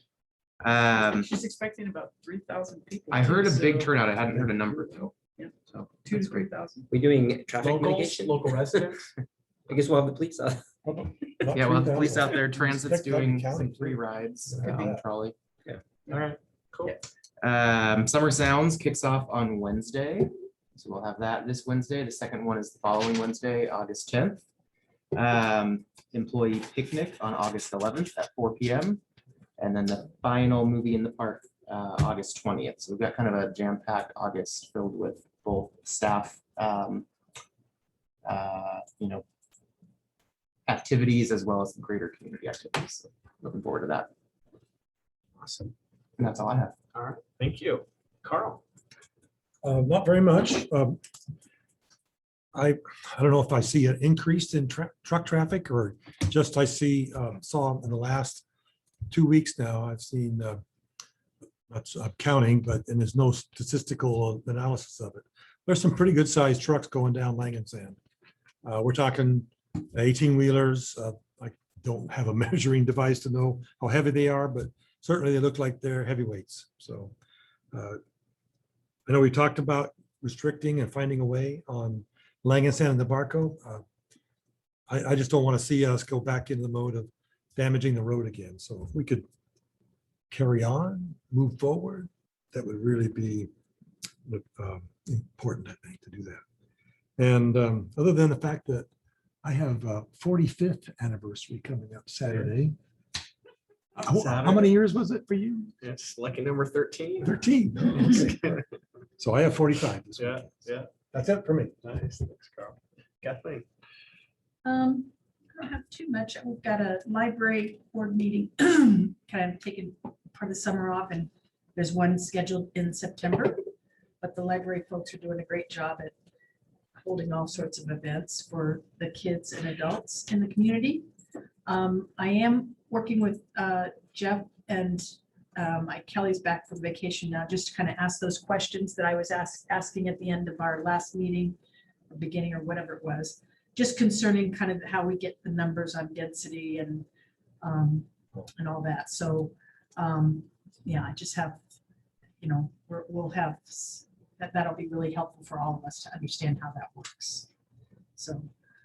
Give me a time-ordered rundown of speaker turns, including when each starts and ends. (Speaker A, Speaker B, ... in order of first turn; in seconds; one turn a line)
Speaker A: 0.6-1.3
Speaker B: 1.1-3.9
Speaker A: 3.1-5.2
Speaker A: 5.7-6.5
Speaker B: 6.0-6.9
Speaker C: 6.9-9.0
Speaker D: 7.6-9.0
Speaker C: 9.7-10.6
Speaker E: 10.8-15.0
Speaker A: 11.5-15.3
Speaker D: 16.1-17.0
Speaker A: 17.4-24.4
Speaker A: 25.1-29.0
Speaker A: 29.6-37.1
Speaker A: 38.2-39.2
Speaker A: 40.7-44.1
Speaker D: 45.4-45.7
Speaker A: 46.2-46.8
Speaker D: 46.9-48.6
Speaker E: 49.6-51.0
Speaker E: 52.5-58.5
Speaker E: 59.1-60.6
Speaker E: 61.7-68.0
Speaker E: 68.6-77.1
Speaker E: 77.7-78.0
Speaker E: 79.1-83.8
Speaker E: 84.9-89.3
Speaker E: 90.3-93.5
Speaker E: 94.3-96.4
Speaker E: 97.2-98.9
Speaker E: 99.4-102.8
Speaker E: 104.0-105.8
Speaker D: 104.1-104.8
Speaker D: 105.8-107.4
Speaker E: 107.2-108.6
Speaker D: 108.3-108.6
Speaker E: 109.2-111.8
Speaker D: 110.2-110.9
Speaker D: 111.8-113.7
Speaker F: 114.6-123.6
Speaker F: 124.2-126.2
Speaker F: 127.0-131.1
Speaker F: 131.7-141.6
Speaker F: 142.1-147.1
Speaker F: 147.6-151.6
Speaker F: 152.4-157.5
Speaker F: 158.2-158.5